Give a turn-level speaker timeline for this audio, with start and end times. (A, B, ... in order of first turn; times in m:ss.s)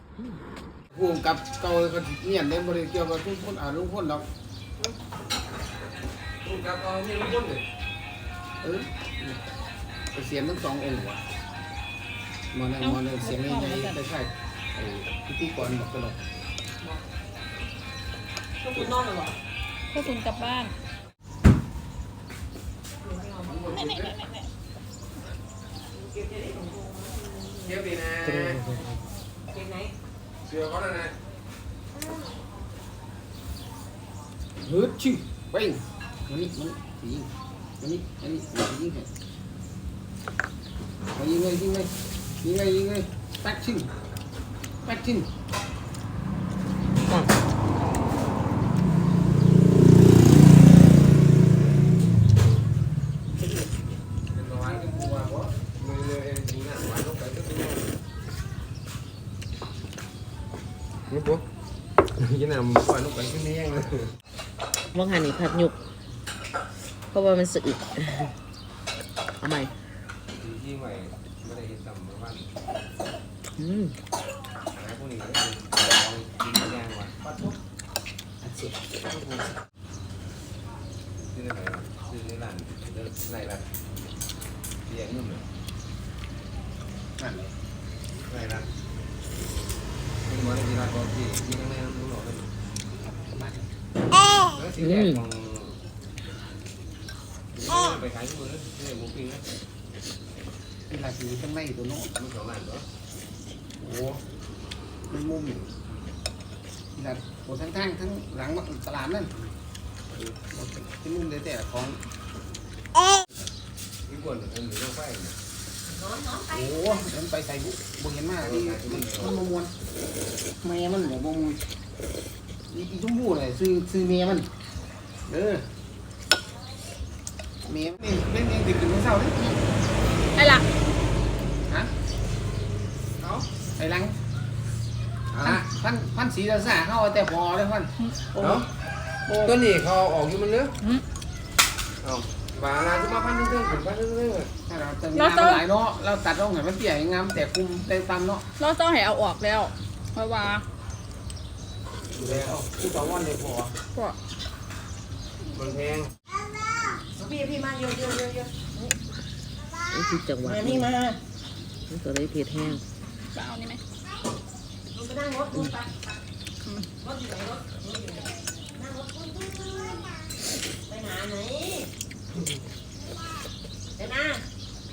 0:00.9-0:04.2 A
0:06.4-0:07.6 B
0:08.6-0:09.4 A
0:10.1-0:11.2 A
0:12.5-0:16.2 A
0:12.8-0:14.0 C
0:18.6-0:19.3 D
0:19.9-0:20.7 C
0:23.0-0:23.6 D
0:23.4-0:24.1 B
0:23.7-0:24.4 C
0:26.0-0:27.6 D
0:27.6-0:28.8 B
0:29.5-0:29.9 D
0:30.4-0:31.2 B
0:32.0-0:32.3 D
0:34.6-0:39.1 A
0:41.1-0:43.9 A
0:44.8-0:45.3 A
0:54.3-0:57.9 B
1:01.1-1:01.4 B
1:02.2-1:04.1 B
1:04.9-1:05.7 E
1:07.1-1:08.3 E
1:09.4-1:09.7 E
1:10.4-1:12.5 B
1:13.6-1:13.9 E
1:14.7-1:17.2 B
1:18.4-1:18.7 A
1:21.3-1:23.6 B
1:24.9-1:25.4 B
1:27.2-1:27.5 A
1:28.3-1:28.7 B
1:30.3-1:32.5 B
1:33.3-1:33.7 A
1:34.5-1:35.8 B
1:34.8-1:35.2 E
1:37.5-1:39.5 B
1:40.9-1:42.1 A
1:42.2-1:42.8 B
1:43.8-1:44.2 A
1:45.1-1:45.7 A
1:46.9-1:49.3 A
1:50.2-1:52.0 A
1:54.0-1:55.4 B
1:55.8-1:57.0 D
1:56.5-1:59.7 A
1:58.4-1:59.3 B
2:00.6-2:01.6 A
2:02.7-2:04.5 A
2:05.3-2:05.6 A
2:07.6-2:09.6 A
2:10.4-2:10.6 C
2:13.2-2:13.4 B
2:13.8-2:14.1 A
2:15.4-2:18.7 A
2:19.3-2:19.6 A
2:19.5-2:20.7 B
2:22.0-2:24.5 B
2:24.7-2:28.4 A
2:25.1-2:25.6 C
2:28.6-2:30.6 C
2:32.1-2:33.7 A
2:35.5-2:36.1 B
2:37.2-2:39.0 D
2:39.9-2:40.9 E
2:40.4-2:41.2 D
2:41.9-2:42.5 E
2:43.3-2:43.8 C
2:44.9-2:45.9 D
2:47.0-2:50.1 D
2:50.9-2:51.9 D
2:54.0-2:54.4 D